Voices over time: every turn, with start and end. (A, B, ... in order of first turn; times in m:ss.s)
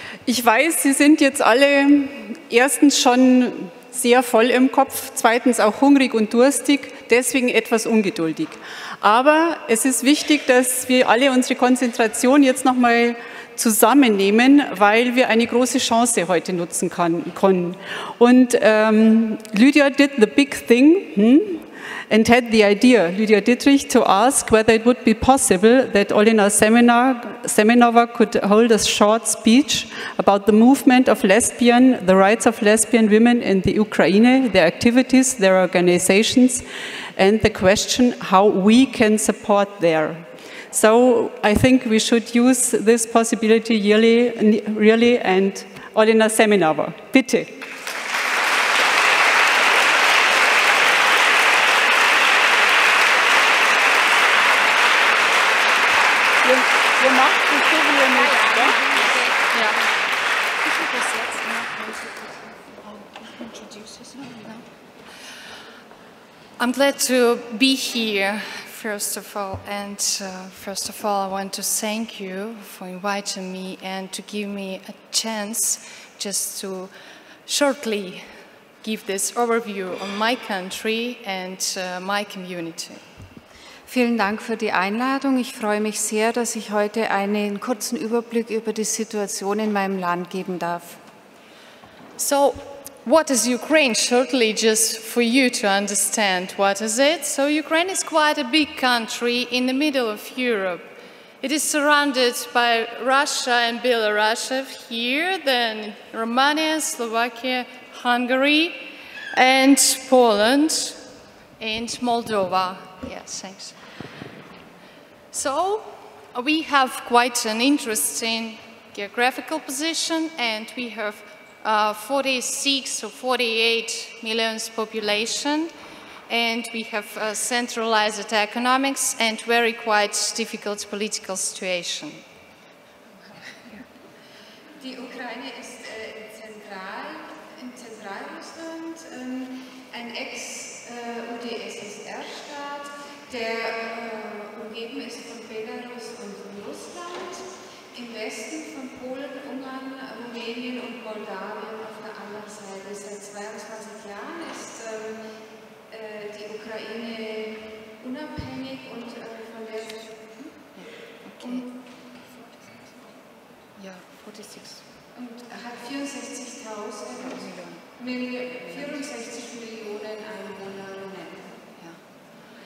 0:00.3-0:47.6 A
0:56.4-0:58.8 A
0:58.1-0:59.8 B
0:59.5-0:59.8 C
1:00.6-1:02.8 B
1:02.8-1:04.6 C
1:06.6-1:16.9 C
1:17.5-1:18.3 C
1:18.8-1:23.0 C
1:23.9-1:31.0 B
1:32.2-1:40.9 C
1:41.4-1:51.0 C
1:51.6-1:53.8 C
1:55.3-2:05.7 C
2:06.3-2:12.2 C
2:14.8-2:35.3 B
2:35.9-2:40.5 B
2:40.8-2:41.6 C
2:41.4-2:41.7 B
2:43.8-2:44.8 C
2:45.1-2:51.6 B
2:47.4-2:47.8 C
2:48.6-2:49.0 C